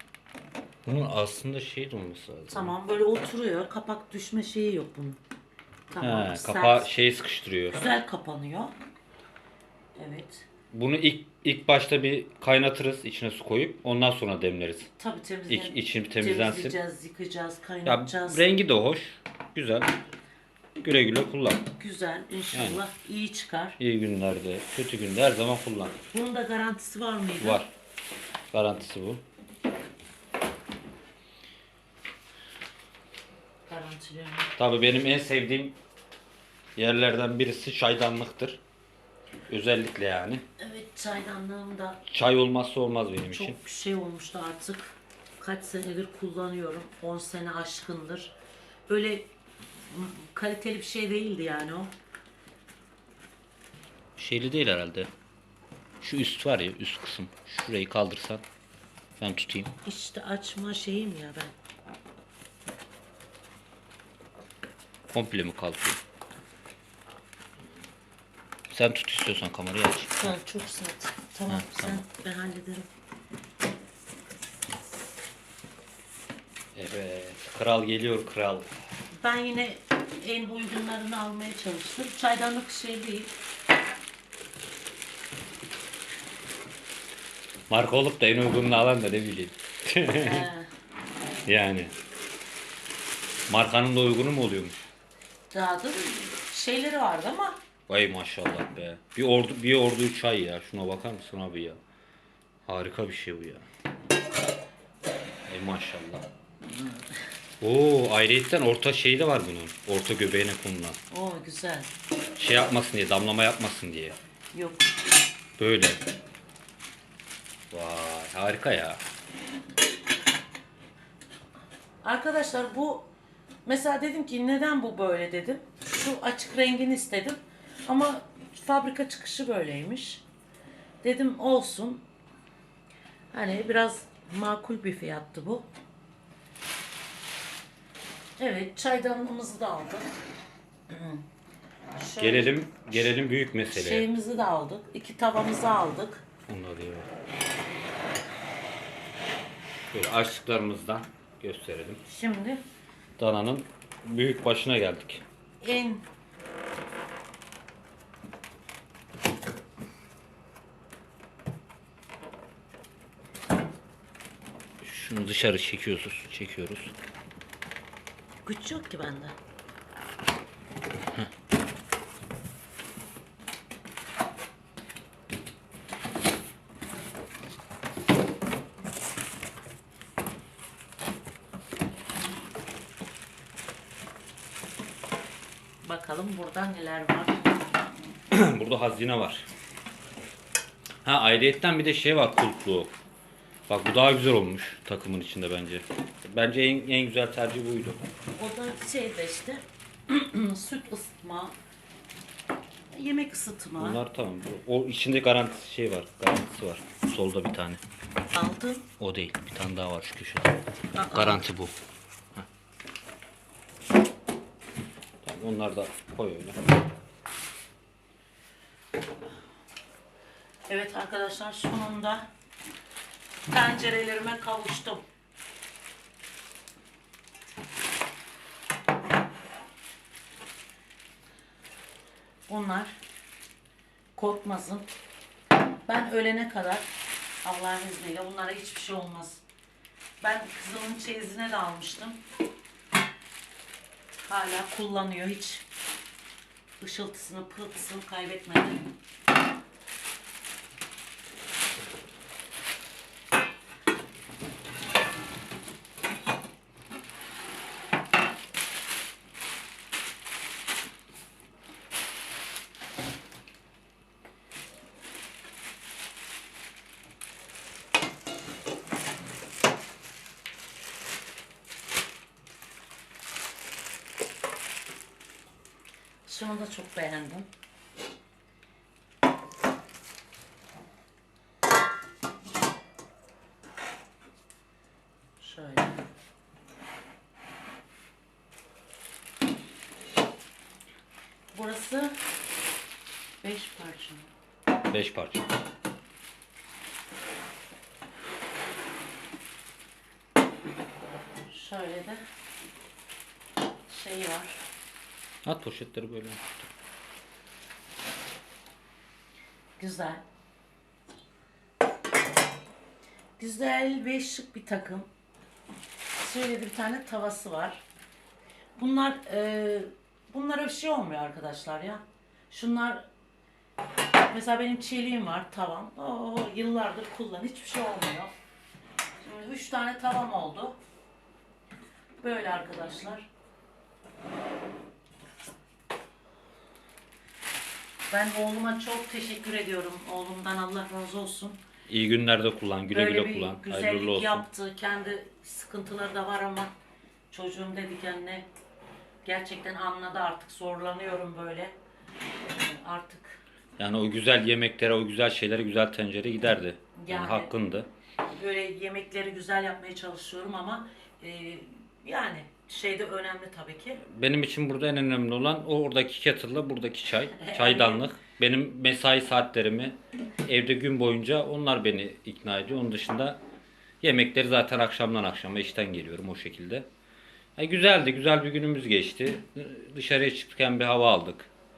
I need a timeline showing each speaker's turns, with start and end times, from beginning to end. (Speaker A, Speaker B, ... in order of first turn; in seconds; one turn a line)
Speaker A: 0.8-2.8
Speaker B: 2.5-5.2
Speaker B: 5.9-6.9
Speaker A: 6.0-7.8
Speaker B: 7.7-8.7
Speaker B: 10.0-10.5
Speaker A: 10.7-14.9
Speaker B: 15.0-18.4
Speaker A: 15.5-16.8
Speaker A: 17.9-19.9
Speaker A: 20.8-21.7
Speaker B: 21.8-23.8
Speaker A: 22.5-22.8
Speaker A: 23.8-26.0
Speaker B: 26.1-27.6
Speaker A: 27.4-27.7
Speaker A: 28.5-29.2
Speaker B: 33.7-34.5
Speaker A: 34.6-35.8
Speaker A: 36.8-38.6
Speaker A: 39.5-40.4
Speaker B: 40.6-42.0
Speaker A: 42.1-43.5
Speaker B: 43.3-48.4
Speaker B: 48.9-51.9
Speaker A: 54.2-55.1
Speaker A: 56.0-58.4
Speaker A: 59.2-59.7
Speaker B: 59.8-61.5
Speaker A: 65.1-66.0
Speaker A: 68.7-70.4
Speaker B: 70.2-72.9
Speaker A: 71.5-72.0
Speaker A: 76.7-78.7
Speaker B: 79.2-83.3
Speaker A: 87.7-90.5
Speaker B: 90.2-90.7
Speaker A: 91.5-91.9
Speaker A: 93.5-94.9
Speaker B: 95.5-97.6
Speaker A: 97.9-101.8
Speaker A: 102.7-103.7
Speaker A: 105.5-106.3
Speaker A: 107.6-111.0
Speaker B: 111.1-111.9
Speaker A: 112.4-114.2
Speaker B: 114.5-114.9
Speaker A: 115.6-116.0
Speaker A: 117.7-119.0
Speaker B: 122.0-123.1
Speaker B: 123.7-130.2
Speaker B: 131.0-132.0
Speaker B: 133.3-135.7
Speaker B: 138.4-140.1
Speaker B: 140.9-141.2
Speaker B: 141.9-142.6
Speaker A: 142.2-144.1
Speaker B: 143.7-146.2
Speaker A: 146.5-147.1
Speaker A: 149.8-152.0
Speaker B: 152.1-152.6
Speaker A: 153.2-155.2
Speaker B: 155.6-156.0
Speaker A: 164.8-166.9
Speaker B: 168.4-169.4
Speaker B: 185.8-187.4
Speaker A: 188.3-189.5
Speaker A: 191.0-193.0
Speaker A: 193.7-198.0
Speaker B: 198.4-201.6
Speaker B: 202.9-204.0
Speaker A: 203.8-207.8
Speaker B: 208.3-208.9
Speaker A: 209.0-210.6
Speaker B: 210.9-211.4
Speaker A: 211.1-211.7
Speaker A: 215.2-216.6
Speaker B: 220.7-222.3
Speaker B: 223.5-225.1
Speaker B: 232.5-233.0
Speaker B: 234.2-234.9
Speaker B: 235.9-236.9
Speaker B: 237.4-239.4
Speaker B: 240.2-242.2
Speaker B: 244.3-245.7
Speaker B: 246.8-248.9
Speaker B: 276.3-277.5
Speaker B: 285.4-285.9
Speaker B: 291.5-292.2
Speaker B: 293.4-294.3
Speaker A: 294.9-295.4
Speaker B: 301.5-302.2
Speaker B: 303.9-304.6
Speaker A: 305.4-306.7
Speaker B: 309.8-310.2
Speaker B: 313.4-315.1
Speaker B: 316.2-317.8
Speaker B: 318.8-323.1
Speaker B: 324.3-328.3
Speaker B: 329.2-330.8
Speaker B: 332.2-333.3
Speaker B: 338.1-341.6
Speaker A: 341.9-344.4
Speaker B: 342.9-346.7
Speaker B: 347.3-348.5
Speaker B: 349.2-351.8
Speaker B: 352.5-353.4
Speaker A: 353.8-357.9
Speaker B: 356.9-357.5
Speaker B: 358.3-364.0
Speaker A: 364.1-373.4
Speaker B: 367.4-368.0
Speaker A: 374.0-376.9
Speaker A: 377.6-381.5